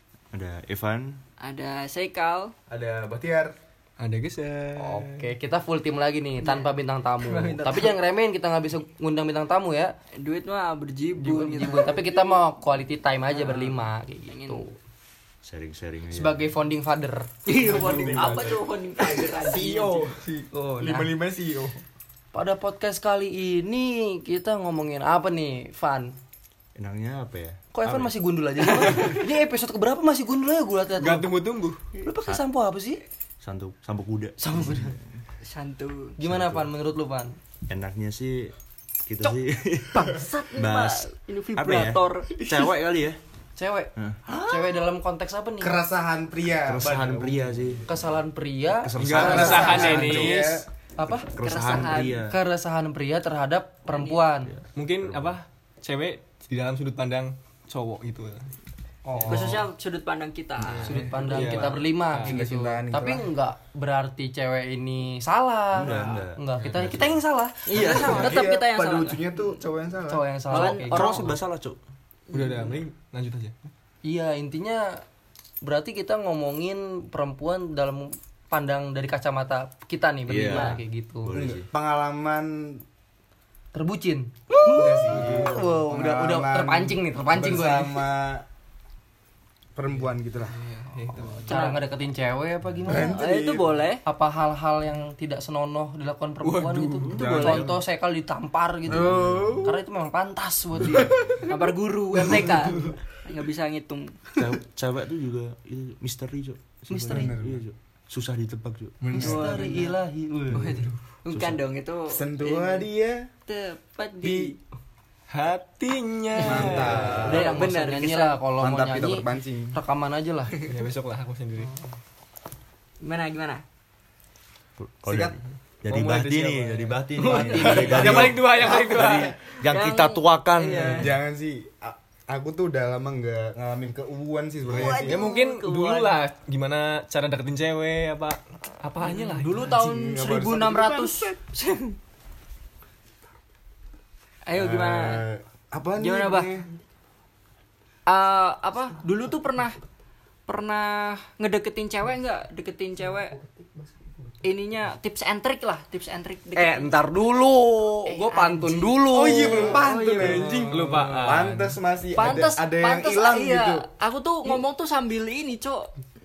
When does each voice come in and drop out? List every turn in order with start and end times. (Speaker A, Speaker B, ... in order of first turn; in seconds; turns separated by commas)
Speaker A: 0.3-1.2, Speaker B: 1.4-2.5, Speaker C: 2.7-3.5, Speaker D: 4.0-5.3, Speaker E: 4.8-9.9, Speaker B: 6.4-8.0, Speaker B: 10.1-12.2, Speaker E: 11.2-14.8, Speaker B: 13.3-14.7, Speaker A: 15.4-16.5, Speaker E: 16.1-17.3, Speaker B: 17.4-20.1, Speaker C: 17.6-21.8, Speaker D: 17.6-18.5, Speaker E: 20.5-21.1, Speaker E: 22.3-26.2, Speaker A: 26.7-29.2, Speaker E: 27.7-31.3, Speaker D: 31.0-31.8, Speaker E: 31.9-33.0, Speaker A: 33.4-35.0, Speaker E: 34.4-35.0, Speaker B: 35.4-36.1, Speaker E: 36.2-37.4, Speaker A: 36.2-36.7, Speaker A: 37.7-38.5, Speaker A: 39.0-43.2, Speaker B: 39.9-42.4, Speaker E: 40.0-40.5, Speaker D: 42.4-42.7, Speaker E: 43.6-45.8, Speaker B: 44.3-44.7, Speaker C: 45.6-48.0, Speaker A: 46.6-47.9, Speaker E: 47.9-50.1, Speaker A: 48.8-50.5, Speaker D: 49.0-50.6, Speaker C: 49.1-50.7, Speaker E: 51.0-51.3, Speaker A: 51.2-52.4, Speaker B: 51.4-52.3, Speaker E: 52.2-54.5, Speaker B: 53.9-54.2, Speaker A: 54.4-55.4, Speaker D: 54.7-58.5, Speaker E: 59.0-59.6, Speaker C: 59.1-59.5, Speaker D: 59.2-59.5, Speaker B: 59.3-61.8, Speaker D: 60.6-62.5, Speaker E: 60.8-68.4, Speaker C: 62.2-63.3, Speaker A: 65.7-67.2, Speaker B: 67.7-69.5, Speaker C: 67.8-70.2, Speaker E: 70.1-71.4, Speaker B: 70.5-71.4, Speaker A: 70.5-71.8, Speaker B: 72.3-72.8, Speaker D: 72.3-73.5, Speaker E: 74.0-75.0, Speaker E: 75.6-81.3, Speaker A: 80.3-81.7, Speaker B: 80.5-80.8, Speaker C: 81.3-82.8, Speaker E: 83.7-88.1, Speaker C: 84.7-88.4, Speaker D: 85.2-85.5, Speaker C: 89.7-90.6, Speaker D: 90.5-91.6, Speaker E: 91.4-93.2, Speaker B: 91.4-91.8, Speaker C: 92.8-93.8, Speaker B: 92.9-94.0, Speaker E: 94.0-101.4, Speaker D: 96.4-97.2, Speaker B: 97.1-97.7, Speaker A: 97.1-97.8, Speaker A: 98.9-99.6, Speaker C: 98.9-99.8, Speaker B: 101.5-104.2, Speaker E: 102.2-102.9, Speaker A: 104.3-109.1, Speaker E: 106.9-107.3, Speaker C: 107.1-107.6, Speaker C: 109.0-109.6, Speaker B: 109.1-110.0, Speaker E: 109.1-110.7, Speaker B: 110.5-112.9, Speaker D: 110.6-110.9, Speaker A: 111.3-111.6, Speaker C: 112.1-113.3, Speaker B: 113.5-114.6, Speaker C: 114.2-114.5, Speaker D: 115.3-117.3, Speaker B: 116.3-118.4, Speaker C: 116.4-117.6, Speaker E: 117.0-120.6, Speaker C: 118.6-119.8, Speaker D: 120.7-121.7, Speaker B: 123.0-123.6, Speaker A: 124.8-131.1, Speaker C: 125.0-125.4, Speaker D: 125.9-129.4, Speaker E: 127.2-128.1, Speaker B: 127.2-127.9, Speaker C: 127.9-128.4, Speaker B: 129.5-131.1, Speaker C: 130.9-135.2, Speaker B: 134.7-136.2, Speaker D: 135.0-138.4, Speaker E: 138.8-139.7, Speaker B: 139.0-142.0, Speaker C: 139.7-141.3, Speaker B: 144.4-145.2, Speaker C: 144.5-146.7, Speaker B: 146.0-146.5, Speaker B: 148.1-149.8, Speaker B: 150.5-153.3, Speaker B: 154.4-156.9, Speaker E: 156.5-159.9, Speaker B: 158.1-160.9, Speaker C: 159.1-163.9, Speaker D: 160.2-161.8, Speaker E: 160.4-161.2, Speaker B: 162.1-165.9